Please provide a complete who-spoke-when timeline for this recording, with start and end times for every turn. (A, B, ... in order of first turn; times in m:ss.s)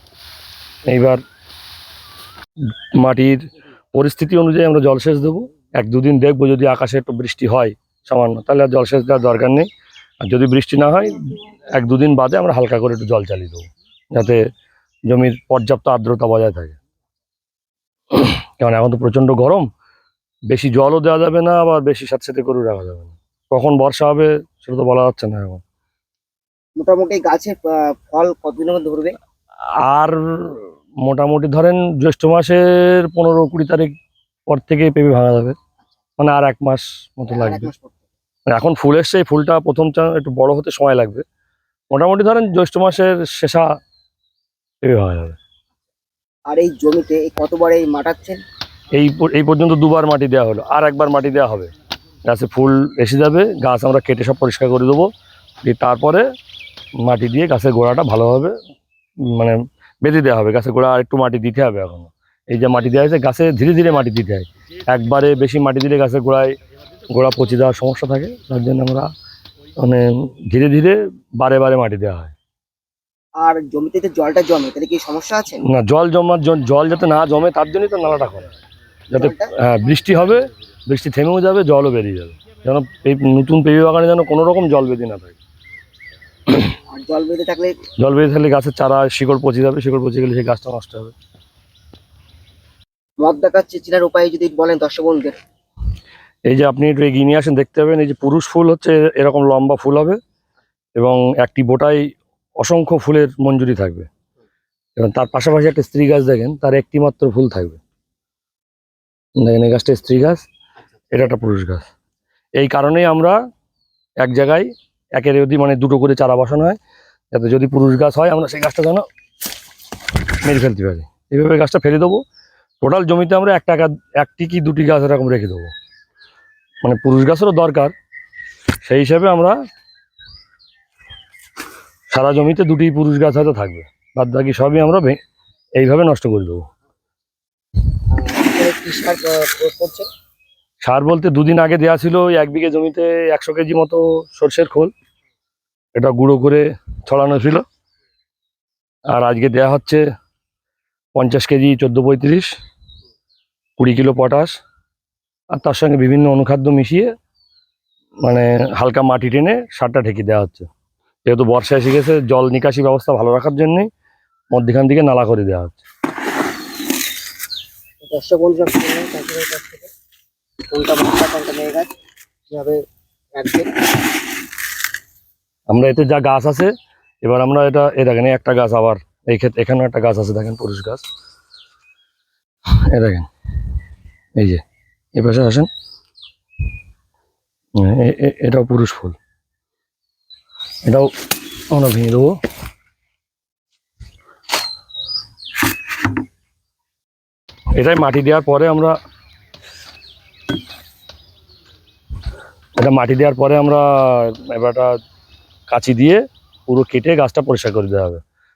0:00.9-0:01.2 A
0:03.0-0:03.4 A
0:03.9-0:09.7 A
0:10.2-0:11.2 A
0:11.8-0:14.4 A
0:15.1-0:16.8 A
0:18.1-0:19.7 A
0:20.5-0:25.6 A
0:26.8-0:29.1 B
0:29.8-0:33.9 A
0:34.5-0:35.5 A
0:36.2-0:37.7 A
0:37.3-0:38.0 B
0:38.5-0:41.2 A
0:41.9-0:43.7 A
0:44.8-0:45.4 A
0:46.5-0:48.4 B
0:48.9-0:51.7 A
0:52.3-0:55.1 A
0:55.6-0:56.2 A
0:57.0-0:58.5 A
0:59.3-1:06.5 A
1:07.1-1:09.1 A
1:09.8-1:12.3 A
1:13.4-1:15.6 B
1:15.7-1:18.4 A
1:19.1-1:25.4 A
1:19.1-1:19.5 B
1:26.9-1:27.8 B
1:28.0-1:31.1 A
1:33.2-1:35.4 B
1:36.5-1:40.2 A
1:41.0-1:42.0 A
1:42.6-1:44.1 A
1:45.0-1:47.8 A
1:49.4-1:50.4 A
1:51.1-1:51.9 A
1:52.6-1:53.3 A
1:54.2-1:56.8 A
1:57.3-1:59.0 A
2:00.3-2:02.2 A
2:02.8-2:05.7 A
2:06.8-2:07.9 A
2:08.8-2:09.6 A
2:12.1-2:15.2 A
2:15.8-2:16.7 A
2:18.1-2:20.1 B
2:20.8-2:24.9 A
2:26.0-2:27.6 A
2:29.1-2:30.0 A
2:31.2-2:32.5 A
2:33.8-2:34.6 A
2:35.5-2:37.1 A
2:38.2-2:40.7 A
2:41.3-2:43.9 A
2:44.5-2:45.8 A
2:48.1-2:49.9 B
2:50.7-2:51.9 B
2:52.5-2:52.8 B
2:53.3-2:53.7 B
2:55.7-2:56.7 A
2:57.2-3:01.0 A
3:02.8-3:03.3 A
3:04.4-3:04.6 A
3:05.2-3:05.7 A
3:07.8-3:09.2 A
3:11.7-3:12.4 A
3:17.8-3:18.9 A
3:22.8-3:24.9 A
3:25.7-3:28.2 A